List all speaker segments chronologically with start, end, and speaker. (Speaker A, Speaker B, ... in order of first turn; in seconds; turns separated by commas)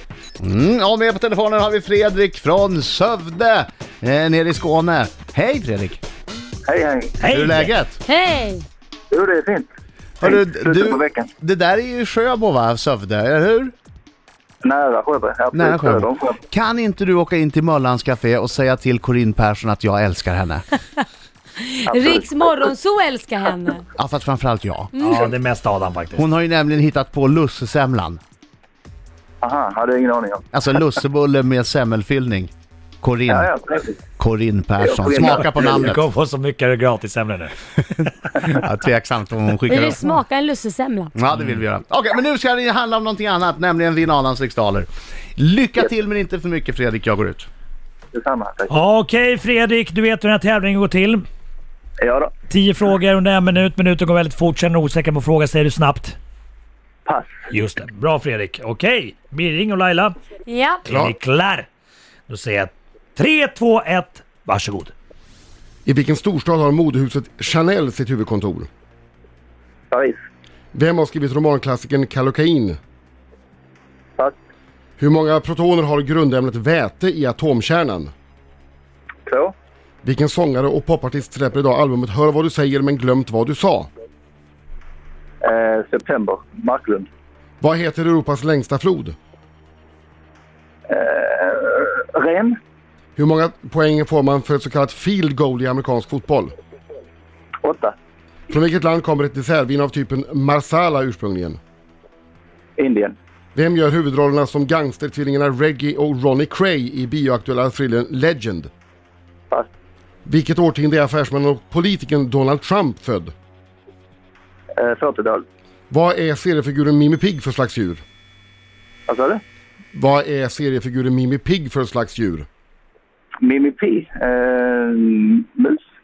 Speaker A: 0.4-6.0, Speaker B: 6.7-7.2, Speaker C: 7.2-7.7, Speaker A: 7.3-8.0, Speaker D: 8.1-8.7, Speaker B: 9.1-9.7, Speaker B: 10.2-11.3, Speaker A: 10.2-13.7, Speaker B: 14.6-16.4, Speaker A: 15.5-20.7, Speaker D: 21.7-23.9, Speaker B: 21.9-22.6, Speaker A: 23.9-24.9, Speaker D: 24.9-25.3, Speaker C: 25.0-26.3, Speaker A: 26.1-28.2, Speaker B: 29.4-30.4, Speaker A: 30.5-32.5, Speaker A: 33.0-33.5, Speaker B: 33.3-34.0, Speaker A: 34.2-36.1, Speaker B: 34.8-35.9, Speaker C: 35.2-38.1, Speaker A: 38.4-40.2, Speaker D: 39.7-41.1, Speaker A: 41.2-47.5, Speaker B: 48.1-48.7, Speaker C: 48.7-51.2, Speaker B: 52.0-52.3, Speaker C: 52.5-56.2, Speaker B: 57.1-57.4, Speaker C: 57.5-60.2, Speaker D: 60.5-60.9, Speaker C: 60.8-61.7, Speaker C: 62.3-64.9, Speaker E: 65.8-68.7, Speaker B: 69.9-70.2, Speaker E: 70.7-72.8, Speaker E: 75.0-78.1, Speaker B: 79.3-79.5, Speaker E: 80.0-83.9, Speaker B: 85.4-87.1, Speaker E: 87.6-89.2, Speaker B: 90.9-92.6, Speaker E: 93.2-96.5, Speaker B: 97.6-98.0, Speaker E: 98.5-101.6, Speaker B: 102.8-103.2, Speaker E: 103.5-108.7, Speaker E: 110.2-113.3, Speaker B: 114.8-115.5, Speaker E: 115.9-118.0, Speaker B: 119.1-119.4, Speaker E: 119.9-122.5, Speaker B: 123.4-125.8